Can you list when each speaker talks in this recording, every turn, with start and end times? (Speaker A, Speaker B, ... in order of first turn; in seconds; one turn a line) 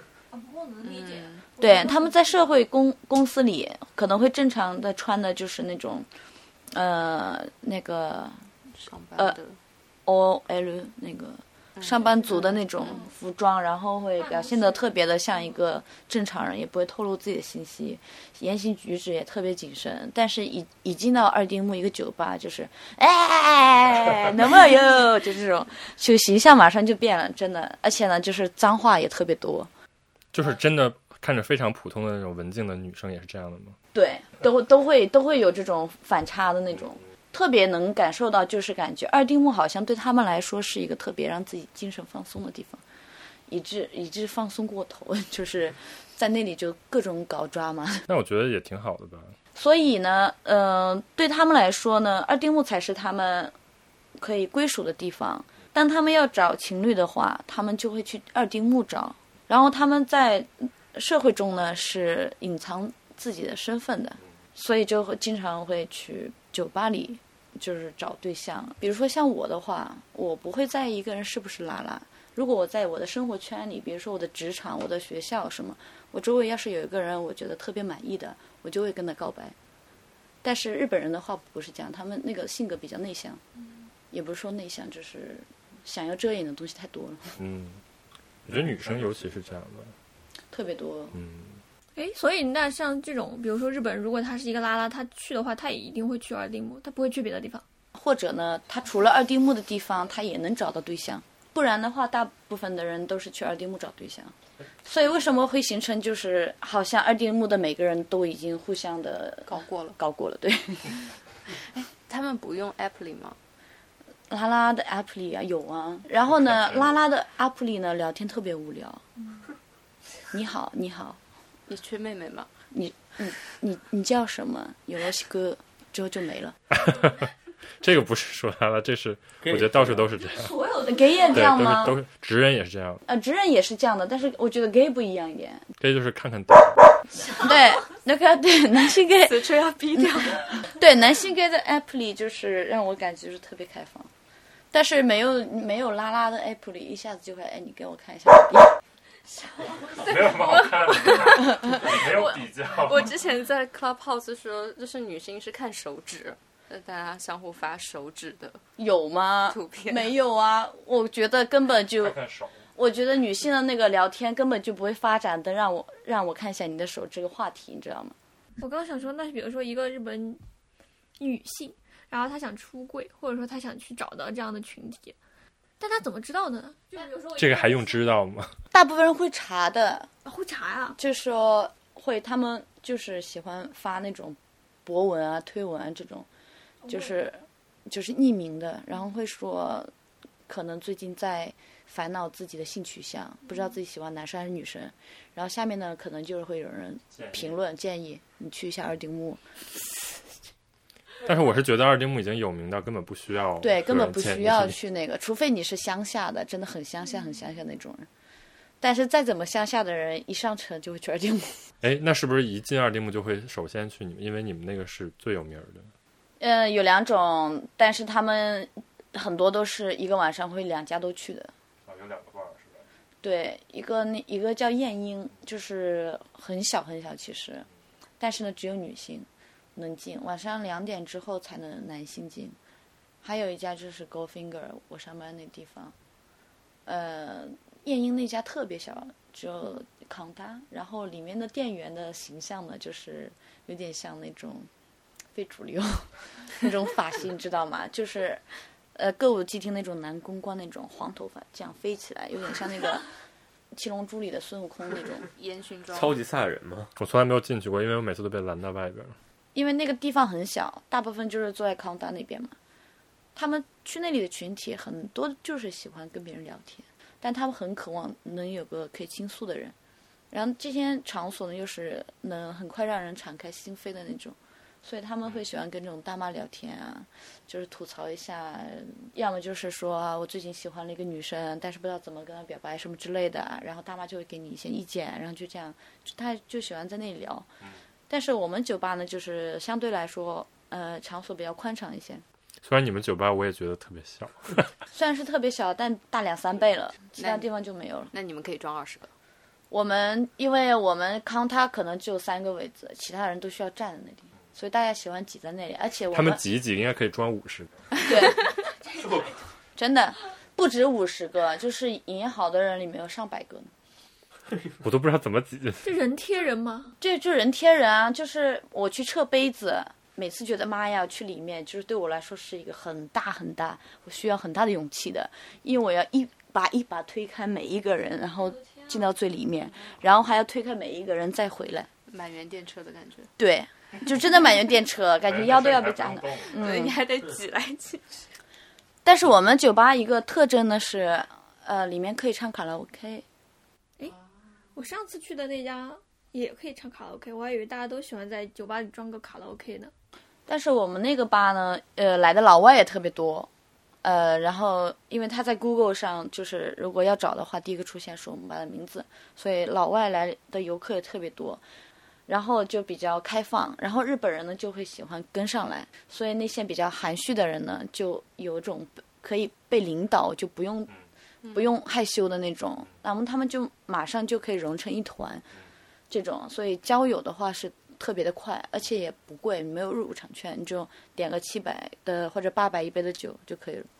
Speaker A: 0.3-2.1
Speaker B: 0.8-1.5
Speaker C: 1.6-6.1
Speaker C: 6.7-8.4
Speaker B: 8.8-9.6
Speaker C: 10.1-29.7
Speaker B: 11.8-12.9
Speaker A: 14.2-14.9
Speaker D: 30.3-33.8
Speaker C: 33.9-42.8
Speaker C: 43.5-48.1
Speaker D: 48.1-49.4
Speaker C: 49.5-53.5
Speaker C: 54.2-79.5
Speaker C: 80.4-83.4
Speaker C: 84.1-87.4
Speaker D: 87.4-87.8
Speaker D: 88.5-90.0
Speaker C: 90.5-91.2
Speaker D: 91.2-91.6
Speaker A: 92.0-97.6
Speaker C: 98.0-111.1
Speaker B: 109.5-110.0
Speaker B: 111.6-113.4
Speaker C: 114.3-119.0
Speaker C: 120.3-121.2
Speaker B: 121.7-122.5
Speaker C: 122.7-126.6
Speaker D: 126.8-127.3
Speaker D: 127.8-130.6
Speaker E: 129.4-130.1
Speaker A: 130.3-131.2
Speaker C: 130.8-132.0
Speaker D: 131.3-133.0
Speaker C: 133.1-135.7
Speaker D: 135.8-136.9
Speaker C: 137.3-144.1
Speaker B: 139.2-140.6
Speaker C: 144.7-148.8
Speaker D: 149.9-153.1
Speaker B: 151.8-158.6
Speaker C: 158.8-162.2
Speaker B: 159.5-160.1
Speaker D: 162.0-162.6
Speaker C: 162.8-168.2
Speaker A: 168.6-170.4
Speaker A: 171.2-175.2
Speaker A: 175.8-177.6
Speaker D: 177.3-178.6
Speaker C: 178.7-180.1
Speaker A: 180.2-181.0
Speaker C: 181.0-186.3
Speaker A: 186.8-187.1
Speaker C: 186.9-189.9
Speaker C: 190.5-199.4
Speaker D: 197.2-197.5
Speaker D: 201.2-204.8
Speaker C: 203.6-208.1
Speaker C: 208.8-211.6
Speaker D: 211.8-215.9
Speaker C: 216.4-221.5
Speaker D: 221.9-222.9
Speaker C: 223.2-227.7
Speaker C: 228.2-232.6
Speaker C: 233.2-235.9
Speaker C: 236.9-244.7
Speaker C: 245.3-248.4
Speaker C: 248.9-253.1
Speaker C: 253.7-255.3
Speaker B: 255.4-256.2
Speaker E: 255.9-256.9
Speaker D: 257.0-259.2
Speaker C: 259.6-262.6
Speaker C: 263.4-269.8
Speaker C: 270.3-287.5
Speaker C: 288.1-292.2
Speaker D: 292.6-294.7
Speaker C: 294.9-298.1
Speaker B: 297.2-297.5
Speaker B: 298.1-299.1
Speaker C: 299.7-306.4
Speaker D: 306.1-307.8
Speaker C: 308.1-308.4
Speaker E: 309.0-309.3
Speaker C: 309.8-313.7
Speaker D: 314.8-315.9
Speaker A: 315.8-316.9
Speaker C: 317.0-331.9
Speaker B: 332.1-333.3
Speaker C: 333.4-337.0
Speaker D: 335.3-336.7
Speaker B: 336.5-338.2
Speaker C: 339.1-343.2
Speaker A: 344.8-349.9
Speaker C: 350.5-353.5
Speaker C: 354.0-361.6
Speaker C: 362.3-370.9
Speaker C: 371.5-375.5
Speaker C: 376.1-383.9